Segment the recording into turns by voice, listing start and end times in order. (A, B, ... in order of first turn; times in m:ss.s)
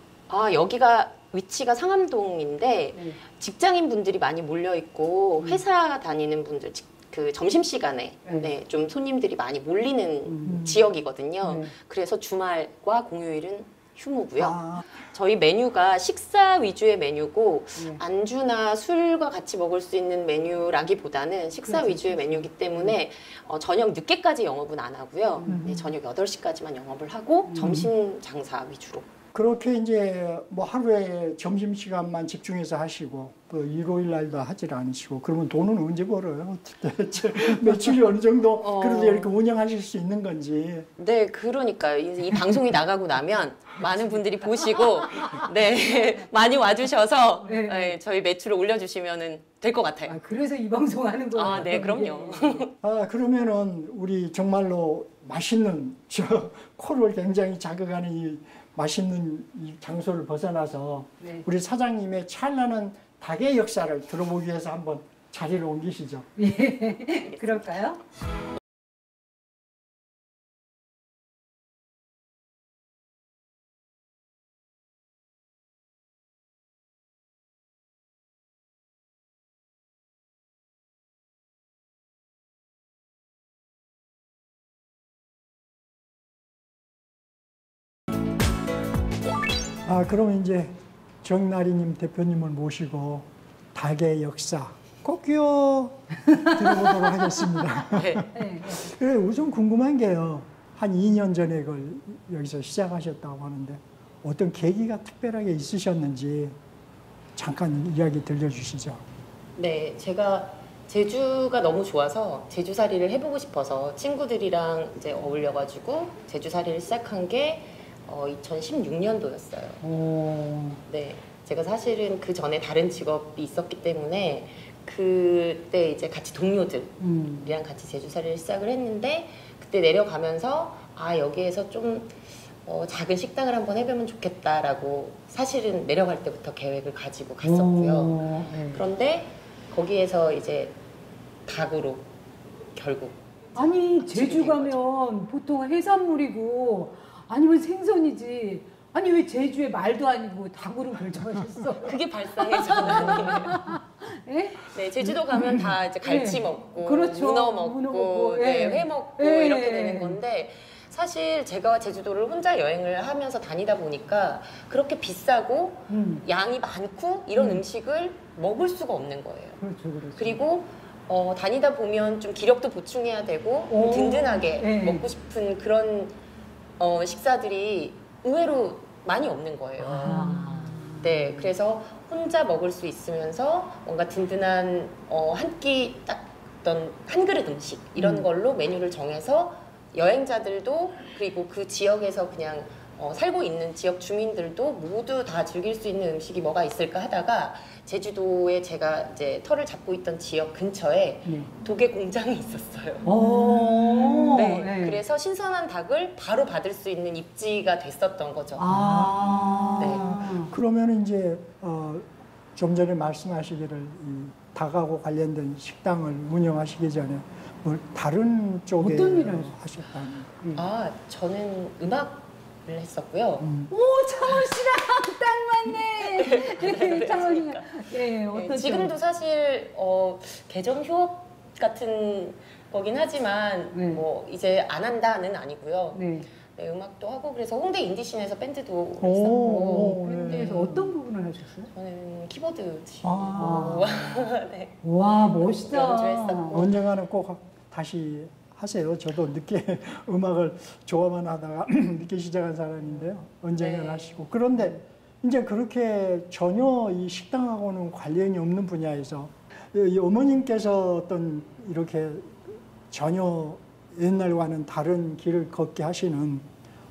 0:00.3-0:29.1 A
0:02.9-0:03.2 B
0:08.2-0:08.5 B
0:10.3-0:10.7 B
0:10.4-0:10.8 C
0:11.4-0:11.7 B
0:14.4-0:14.8 C
0:21.6-0:23.0 B
0:25.4-0:25.7 B
0:25.5-0:25.9 C
0:27.5-0:27.9 B
0:27.6-0:27.9 C
0:29.3-0:40.9 C
0:38.6-0:39.3 A
0:41.0-0:50.2 A
0:47.4-0:48.0 B
0:50.0-0:52.7 B
0:51.3-0:52.7 A
0:52.8-1:06.3 C
1:01.2-1:01.5 B
1:06.4-1:08.0 B
1:07.2-1:07.8 A
1:29.8-1:46.6 C
1:36.3-1:37.0 B
1:37.9-1:38.3 A
1:38.3-1:38.9 B
1:47.4-1:49.0 C
1:49.6-1:59.8 A
1:59.8-2:00.8 B
2:00.9-2:20.8 A
2:07.0-2:07.5 B
2:17.4-2:18.8 B
2:21.5-2:22.1 A
2:22.8-2:24.9 A
2:23.6-2:40.2 B
2:31.8-2:33.8 A
2:34.6-2:49.6 A
2:45.9-2:46.2 B
2:47.4-2:47.6 B
2:49.6-2:50.4 B
2:50.2-2:56.2 A
2:53.7-2:55.1 B
2:56.8-3:00.5 A
2:59.8-3:01.5 B
3:00.1-3:00.9 C
3:01.0-3:23.1 A
3:08.0-3:08.3 B
3:21.2-3:21.5 B
3:23.0-3:25.0 B
3:23.2-3:24.6 C
3:24.3-3:28.7 A
3:28.6-3:30.5 B
3:28.7-3:40.3 C
3:29.8-3:30.0 A
3:38.8-3:39.6 B
3:40.4-3:40.7 B
3:40.5-3:43.5 A
3:43.4-3:43.7 C
3:43.7-3:49.0 B
3:44.2-3:44.6 A
3:45.7-4:00.0 A
3:53.7-3:54.0 B
3:55.9-3:56.3 B
3:59.0-4:01.0 C
3:59.6-4:01.7 B
4:01.7-4:04.8 A
4:03.0-4:03.9 C
4:03.3-4:04.3 B
4:04.8-4:06.7 B
4:05.3-4:06.7 A
4:06.5-4:26.5 C
4:13.6-4:14.3 A